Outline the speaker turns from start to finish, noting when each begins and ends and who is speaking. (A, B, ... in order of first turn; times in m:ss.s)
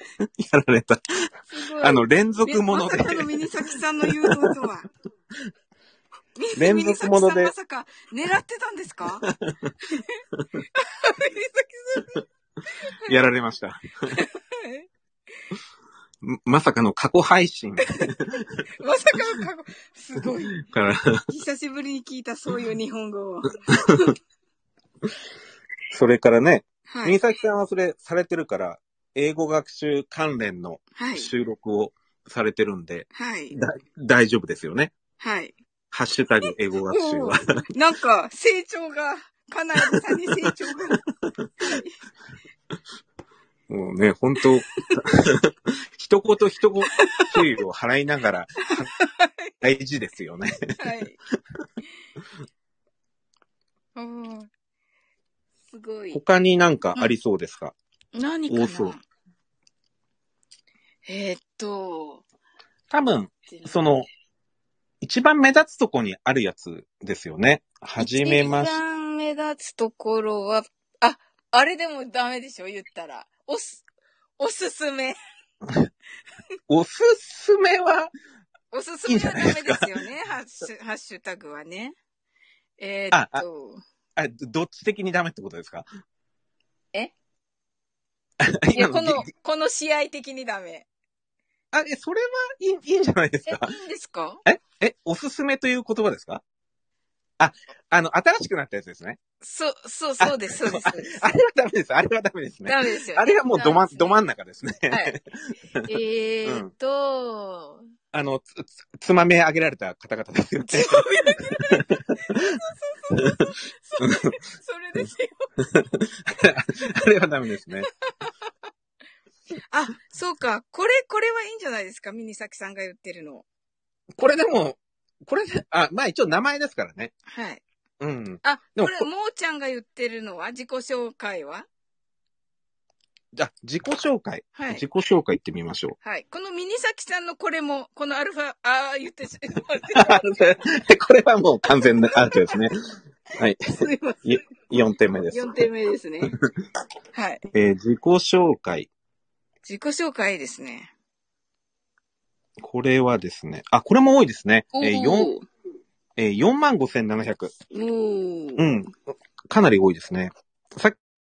0:00.4-0:01.3 A
0:01.5-0:04.9 B
0:01.8-0:03.4 A
0:04.1-0:04.5 A
0:06.4-0:09.3 B
0:06.6-0:07.5 A
0:09.2-0:09.7 A
0:10.7-0:12.2 B
0:13.0-0:14.2 A
0:14.1-0:14.9 B
0:16.2-0:18.4 A
0:18.8-0:20.6 B
0:20.6-0:21.2 A
0:21.3-0:24.1 B
0:23.7-0:24.0 A
0:25.9-0:34.9 A
0:26.9-0:27.2 B
0:31.0-0:31.3 B
0:33.1-0:33.6 B
0:35.2-0:35.6 B
0:35.9-0:37.5 A
0:36.4-0:41.0 B
0:41.6-0:41.9 B
0:43.7-0:48.9 A
0:46.9-0:47.4 B
0:48.7-0:49.3 B
0:49.6-0:50.8 A
0:50.8-0:51.2 B
0:54.0-0:54.5 B
0:55.7-0:56.2 B
0:56.1-0:57.7 A
0:58.1-0:59.0 B
0:58.5-0:59.0 A
1:01.0-1:02.2 B
1:02.9-1:04.1 A
1:03.5-1:03.7 B
1:05.0-1:08.8 A
1:08.0-1:13.8 B
1:14.4-1:15.2 B
1:16.7-1:18.1 A
1:18.7-1:22.0 B
1:19.0-1:20.0 A
1:22.8-1:23.8 B
1:23.1-1:23.4 A
1:24.2-1:25.8 A
1:28.4-1:29.3 A
1:28.7-1:30.9 B
1:31.7-1:33.7 A
1:33.5-1:34.4 B
1:34.4-1:36.4 A
1:37.4-1:39.2 A
1:39.4-1:41.3 B
1:40.2-1:45.9 A
1:42.6-1:44.2 B
1:44.9-1:45.2 B
1:45.9-1:47.8 B
1:46.4-1:46.7 A
1:48.1-1:52.4 A
1:50.6-1:55.5 B
1:54.0-1:54.3 A
1:55.6-1:57.9 A
1:59.7-2:03.4 B
2:04.2-2:07.1 A
2:07.3-2:07.6 B
2:08.0-2:09.1 A
2:08.4-2:11.7 B
2:13.4-2:16.0 A
2:14.5-2:14.8 B
2:16.0-2:20.4 B
2:19.9-2:22.8 A
2:21.6-2:22.6 B
2:23.4-2:23.6 A
2:23.8-2:24.4 B
2:24.2-2:25.5 A
2:25.3-2:26.3 B
2:27.1-2:27.4 B
2:27.5-2:28.9 A
2:29.6-2:30.9 B
2:32.6-2:35.3 A
2:34.7-2:35.4 B
2:36.2-2:37.5 A
2:37.7-2:38.6 B
2:38.6-2:38.9 A
2:39.5-2:41.0 A